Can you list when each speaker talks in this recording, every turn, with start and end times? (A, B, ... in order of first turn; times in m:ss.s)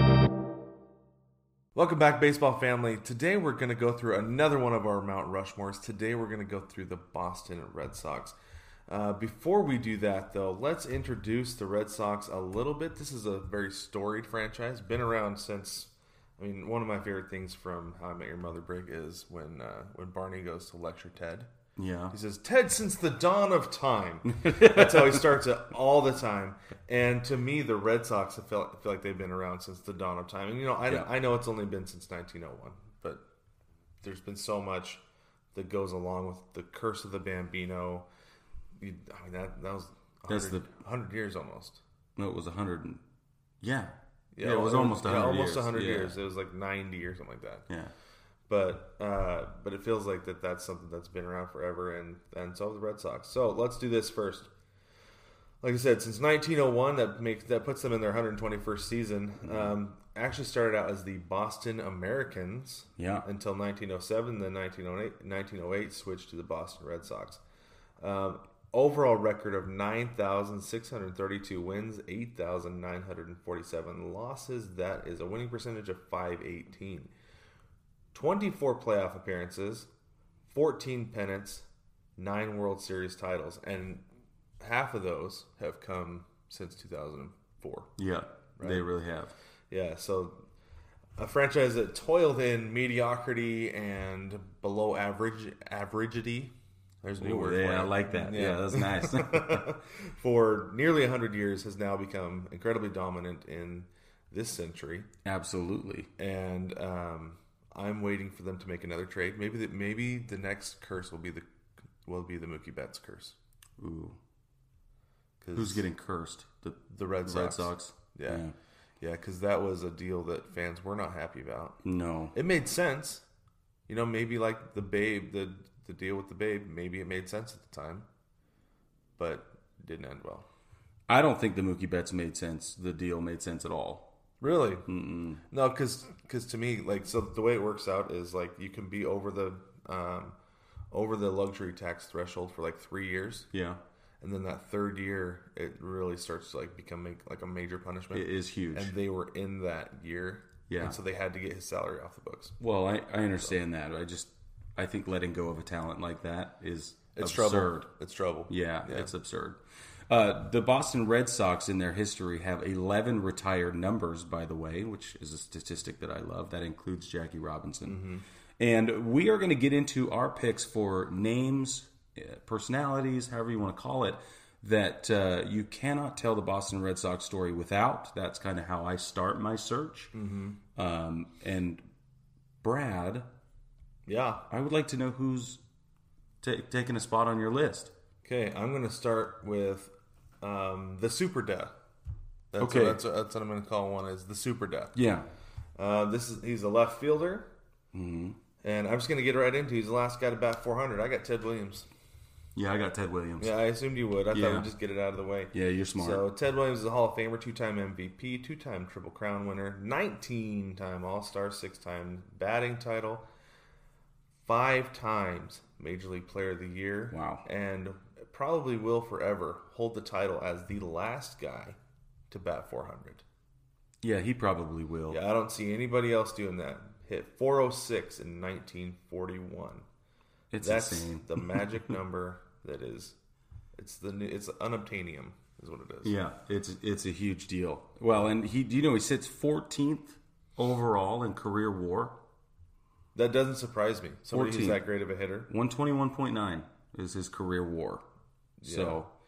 0:01.8-0:08.3 A
0:08.9-0:21.5 A
0:21.8-0:22.2 B
0:22.1-0:33.2 A
0:24.3-0:25.2 B
0:34.0-0:35.0 A
0:35.5-0:38.1 A
0:38.8-0:41.8 A
0:40.3-0:40.7 B
0:42.2-0:43.0 B
0:43.6-0:46.2 B
0:44.3-0:47.7 A
0:48.5-0:54.5 A
0:55.6-1:07.4 A
0:59.4-0:59.7 B
1:03.0-1:03.2 B
1:08.0-1:17.1 A
1:18.1-1:19.9 A
1:20.5-1:21.7 A
1:22.2-1:24.0 A
1:24.6-1:27.9 A
1:28.0-1:29.3 B
1:28.6-1:28.9 A
1:29.7-1:30.4 A
1:31.2-1:45.1 A
1:37.2-1:39.7 B
1:45.2-1:46.1 B
1:46.2-1:51.4 A
1:52.0-1:53.4 A
1:53.8-1:54.2 B
1:55.4-1:55.8 A
1:55.5-1:58.5 B
1:56.9-1:58.4 A
1:59.0-2:01.8 A
2:01.8-2:02.3 B
2:02.3-2:03.2 A
2:03.9-2:08.1 A
2:09.2-2:10.5 A
2:11.1-2:14.1 B
2:14.4-2:14.9 A
2:14.9-2:15.4 B
2:15.5-2:20.3 A
2:20.9-2:23.5 A
2:23.5-2:23.8 B
2:24.2-2:32.5 A
2:28.1-2:28.9 B
2:30.7-2:31.0 B
2:32.6-2:37.9 B
2:37.1-2:39.1 A
2:38.5-2:48.0 B
2:47.8-2:48.2 A
2:48.6-3:00.1 B
3:00.1-3:00.6 A
3:00.8-3:01.8 B
3:02.6-3:03.3 B
3:04.1-3:04.4 A
3:04.5-3:05.6 B
3:06.4-3:07.9 B
3:08.2-3:11.7 A
3:12.5-3:14.9 A
3:12.6-3:13.0 B
3:14.9-3:15.3 B
3:15.8-3:17.5 A
3:17.9-3:18.4 B
3:18.6-3:21.9 A
3:22.5-3:23.5 B
3:23.4-3:33.2 A
3:24.3-3:24.7 B
3:25.5-3:26.2 B
3:34.5-3:41.8 A
3:37.1-3:37.4 B
3:42.3-3:43.2 A
3:44.0-3:45.2 B
3:45.1-3:49.8 A
3:50.5-3:51.7 B
3:50.6-3:53.2 A
3:53.8-3:56.1 A
3:56.0-4:02.2 B
4:03.2-4:05.5 A
4:04.3-4:04.8 B
4:05.5-4:08.0 B
4:08.6-4:09.0 A
4:08.6-4:09.1 B